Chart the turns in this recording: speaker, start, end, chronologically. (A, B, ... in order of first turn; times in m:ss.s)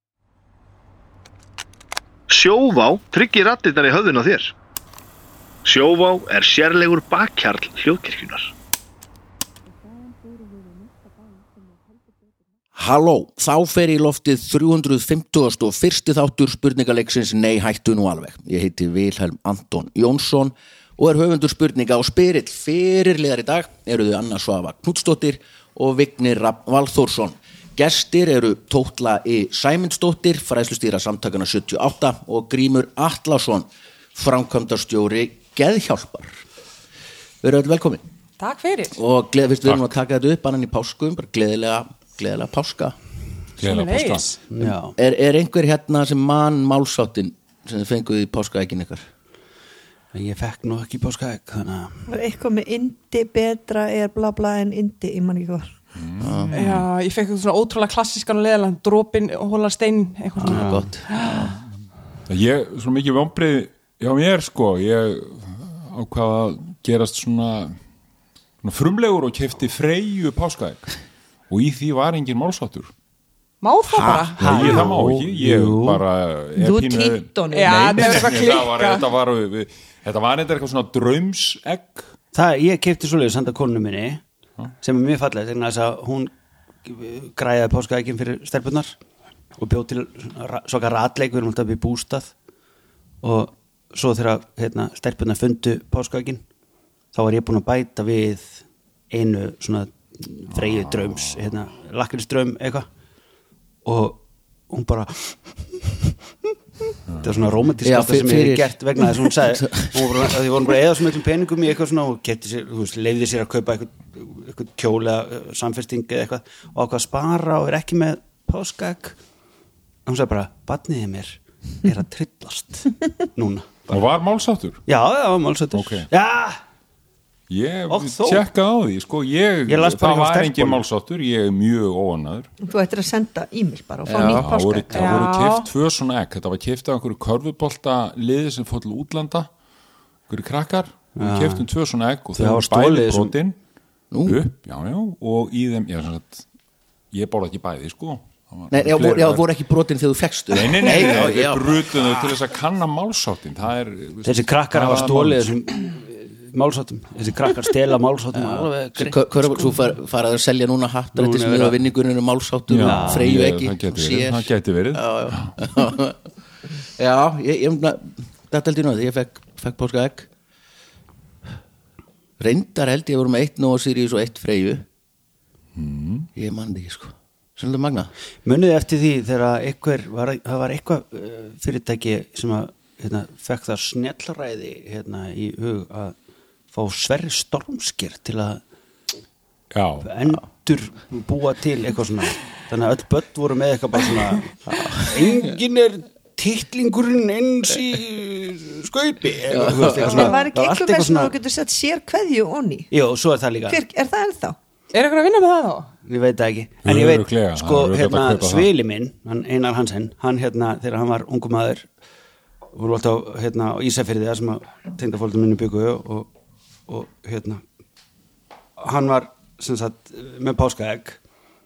0:02.3-0:04.5 A
0:02.6-0:03.1 B
0:05.7-0:08.5 A
0:05.8-0:08.3 B
0:12.8-0:36.4 B
0:37.4-0:38.0 B
0:38.4-0:39.0 C
0:38.9-0:43.0 B
0:43.6-0:44.3 D
0:43.6-0:44.4 C
0:44.5-0:45.0 E
0:45.0-0:49.0 B
0:50.1-0:52.1 E
0:52.1-0:55.7 F
0:56.0-0:56.9 D
0:56.2-0:56.6 B
0:56.5-1:01.5 C
1:00.4-1:01.0 E
1:00.4-1:01.5 B
1:02.3-1:07.8 D
1:08.6-1:12.9 D
1:13.6-1:14.9 C
1:14.0-1:14.3 B
1:14.0-1:16.0 E
1:14.4-1:22.1 D
1:16.6-1:18.2 F
1:17.5-1:19.0 C
1:22.3-1:24.2 E
1:24.8-1:26.3 E
1:26.8-1:29.0 E
1:29.6-1:32.3 E
1:33.2-1:36.5 E
1:37.1-1:42.9 E
1:40.6-1:41.5 D
1:43.8-1:46.2 E
1:47.1-1:47.5 D
1:47.2-1:59.2 E
1:47.8-1:48.8 B
1:49.3-1:50.5 B
2:00.1-2:04.0 E
2:03.9-2:04.8 D
2:04.9-2:06.6 E
2:05.7-2:06.1 D
2:07.5-2:12.5 D
2:07.9-2:08.4 E
2:09.7-2:10.8 E
2:12.6-2:15.3 F
2:14.1-2:14.5 B
2:14.2-2:19.5 D
2:14.9-2:15.7 C
2:20.3-2:23.6 D
2:21.2-2:21.7 E
2:22.4-2:23.4 E
2:24.1-2:24.4 B
2:24.2-2:26.4 D
2:27.1-2:29.4 D
2:28.7-2:32.4 B
2:30.5-2:35.5 D
2:34.2-2:39.7 E
2:38.4-2:46.2 B
2:41.2-2:41.8 E
2:42.7-2:45.6 D
2:42.8-2:43.3 E
2:47.0-2:50.3 B
2:52.4-2:54.8 B
2:55.8-2:56.3 D
2:56.4-2:58.1 B
2:58.4-3:06.2 E
3:06.7-3:08.6 E
3:09.7-3:10.1 D
3:10.0-3:21.3 E
3:14.7-3:15.3 B
3:19.5-3:20.4 B
3:20.0-3:22.9 F
3:22.9-3:23.8 E
3:23.7-3:24.6 F
3:24.9-3:25.9 C
3:26.0-3:31.9 E
3:26.8-3:28.7 D
3:32.7-3:36.3 E
3:36.9-3:37.6 E
3:38.8-3:41.2 E